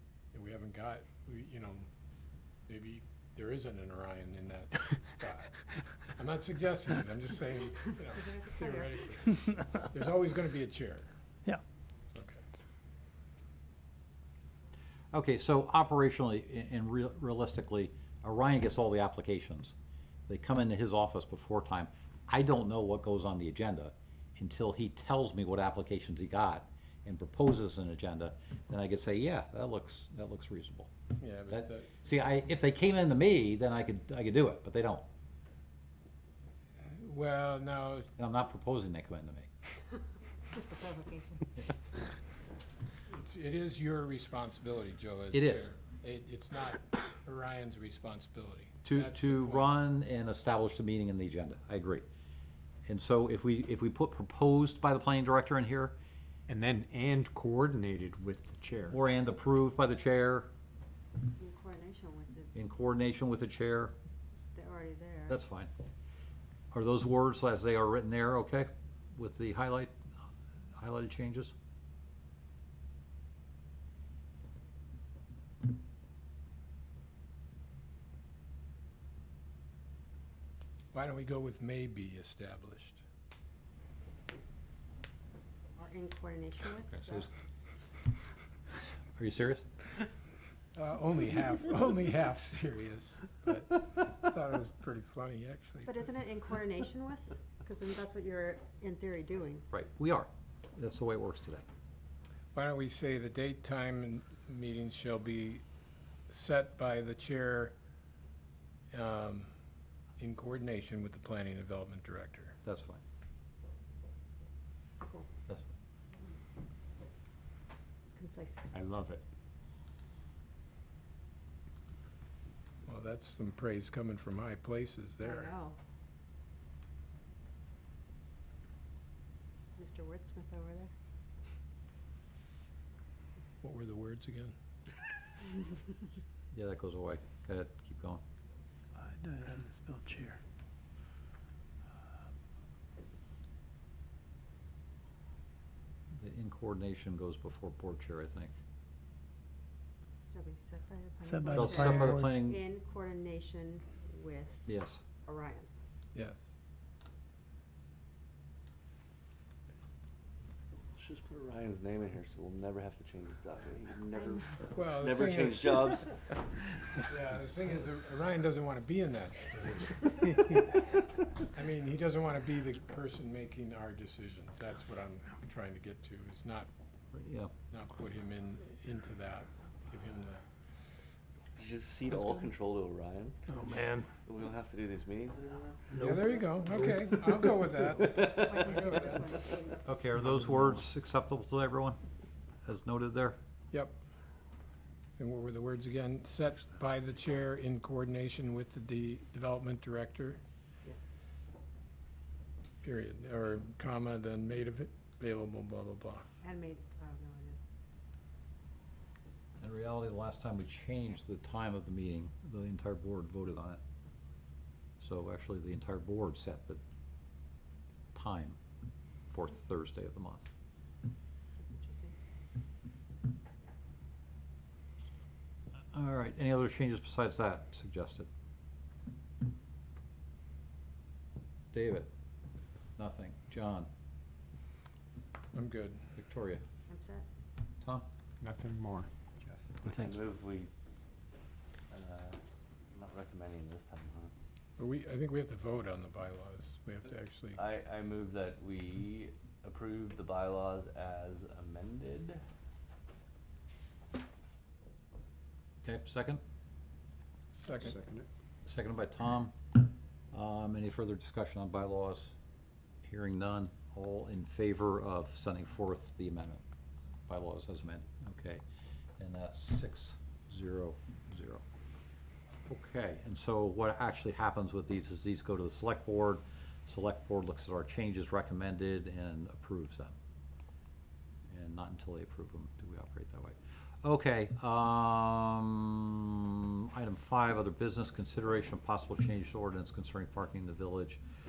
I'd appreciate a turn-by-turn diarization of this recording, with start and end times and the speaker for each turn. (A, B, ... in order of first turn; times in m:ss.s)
0:00.3-0:01.9 A
0:02.7-0:11.1 A
0:08.1-0:09.0 B
0:12.1-0:12.4 A
0:15.1-0:19.7 C
0:20.3-0:30.9 C
0:31.2-0:31.9 A
0:31.5-0:35.0 C
0:36.8-0:38.1 A
0:38.2-0:39.5 C
0:40.5-0:41.5 B
0:43.1-0:49.8 A
0:45.3-0:45.7 C
0:48.8-0:52.0 C
0:52.9-0:55.9 C
0:56.5-0:59.0 D
0:58.9-1:00.5 C
1:01.4-1:02.5 B
1:02.5-1:03.9 C
1:04.5-1:05.4 B
1:05.3-1:05.7 C
1:06.7-1:10.0 C
1:10.7-1:11.5 C
1:20.9-1:23.0 A
1:25.8-1:27.3 B
1:26.9-1:27.3 C
1:29.2-1:29.6 C
1:30.7-1:36.0 A
1:35.8-1:39.6 B
1:39.7-1:41.6 C
1:42.5-1:45.6 A
1:46.3-1:47.7 A
1:48.9-1:49.5 A
1:50.2-1:52.6 A
1:52.6-1:53.0 C
1:55.0-1:55.3 B
1:58.2-1:58.7 B
1:58.7-1:59.2 D
2:02.8-2:05.5 A
2:05.2-2:05.8 B
2:09.8-2:10.9 B
2:13.6-2:14.5 A
2:16.5-2:18.2 C
2:19.0-2:20.4 E
2:26.1-2:28.5 C
2:30.3-2:34.7 B
2:31.2-2:32.3 E
2:31.5-2:32.6 C
2:34.7-2:35.0 C
2:35.2-2:35.7 B
2:36.1-2:36.4 A
2:40.9-2:46.1 F
2:44.1-2:44.5 B
2:44.7-2:46.0 A
2:47.0-2:50.7 A
2:51.4-2:56.7 A
2:57.1-2:57.5 C
2:57.7-3:00.4 A
3:01.6-3:03.5 F
3:03.5-3:04.1 E
3:04.2-3:05.9 F
3:05.9-3:06.4 C
3:05.9-3:09.4 A
3:08.2-3:09.9 B
3:09.8-3:12.0 C
3:12.6-3:13.4 C
3:13.7-3:14.0 A
3:15.2-3:20.4 A
3:20.8-3:21.1 B
3:22.8-3:26.2 A
3:26.4-3:27.6 B
3:29.6-3:33.8 C
3:35.0-3:36.8 C
3:38.1-3:38.6 C
3:39.3-3:40.5 C
3:41.6-3:42.1 B
3:45.9-3:48.3 C
3:51.7-3:52.1 C
3:53.0-3:53.9 C
3:55.5-3:56.2 A
3:56.2-3:56.6 C
3:56.9-3:57.2 B
3:57.8-3:58.0 C
3:58.4-3:59.1 D
3:59.8-4:00.7 F
3:59.9-4:00.1 E
4:01.9-4:02.4 F
4:02.9-4:04.3 F
4:04.8-4:07.6 A
4:07.6-4:12.4 F
4:15.8-4:16.4 C
4:17.6-4:17.9 A
4:17.6-4:18.3 D
4:18.6-4:19.5 C
4:20.3-4:22.3 C
4:23.0-4:26.6 C
4:27.3-4:28.6 C
4:29.2-4:31.6 C
4:32.7-4:40.1 C
4:41.5-4:51.2 C